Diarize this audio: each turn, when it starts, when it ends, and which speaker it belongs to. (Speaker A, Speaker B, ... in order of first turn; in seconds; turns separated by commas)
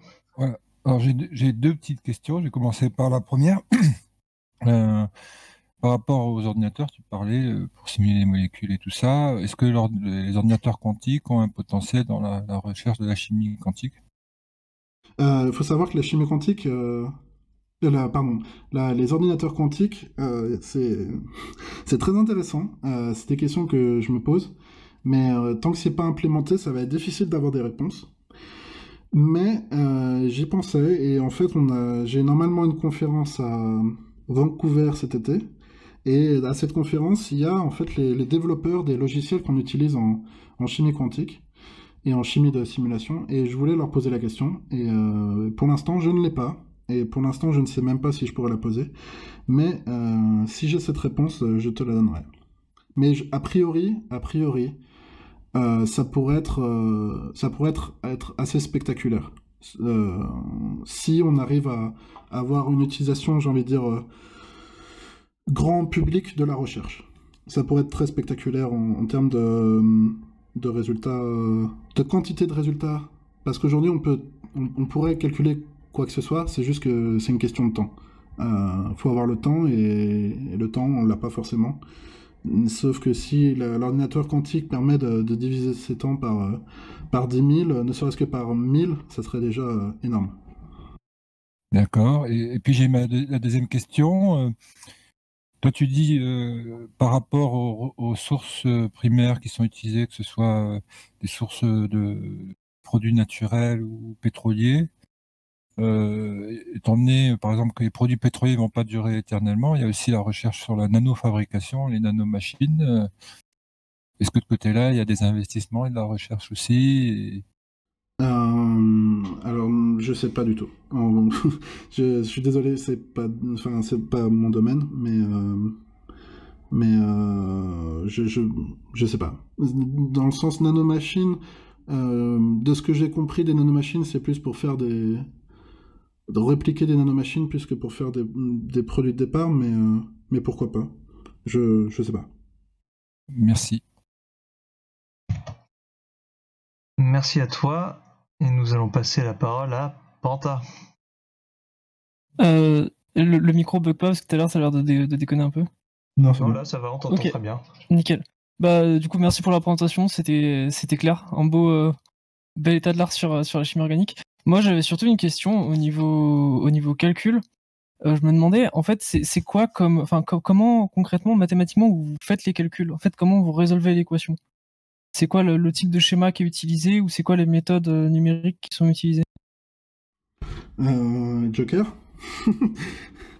Speaker A: 0.4-3.9, Speaker A: 4.6-5.1, Speaker A: 5.8-13.9, Speaker B: 15.2-17.1, Speaker B: 17.8-21.2, Speaker B: 21.9-24.5, Speaker B: 25.0-28.1, Speaker B: 29.1-35.4, Speaker B: 36.0-41.4, Speaker B: 42.0-48.9, Speaker B: 49.5-52.3, Speaker B: 53.0-54.8, Speaker B: 55.5-64.1, Speaker B: 65.5-81.8, Speaker B: 82.4-90.3, Speaker A: 91.7-94.5, Speaker A: 95.6-104.9, Speaker A: 105.8-113.1, Speaker A: 114.2-117.4, Speaker B: 118.2-125.8, Speaker B: 126.7-135.3, Speaker B: 136.3-140.9, Speaker B: 141.4-142.3, Speaker A: 143.3-143.8, Speaker C: 147.0-150.6, Speaker D: 152.4-155.7, Speaker B: 156.2-156.6, Speaker C: 156.4-157.6, Speaker D: 157.9-161.9, Speaker D: 162.6-167.4, Speaker D: 168.0-174.4, Speaker D: 175.1-179.2, Speaker B: 180.8-183.0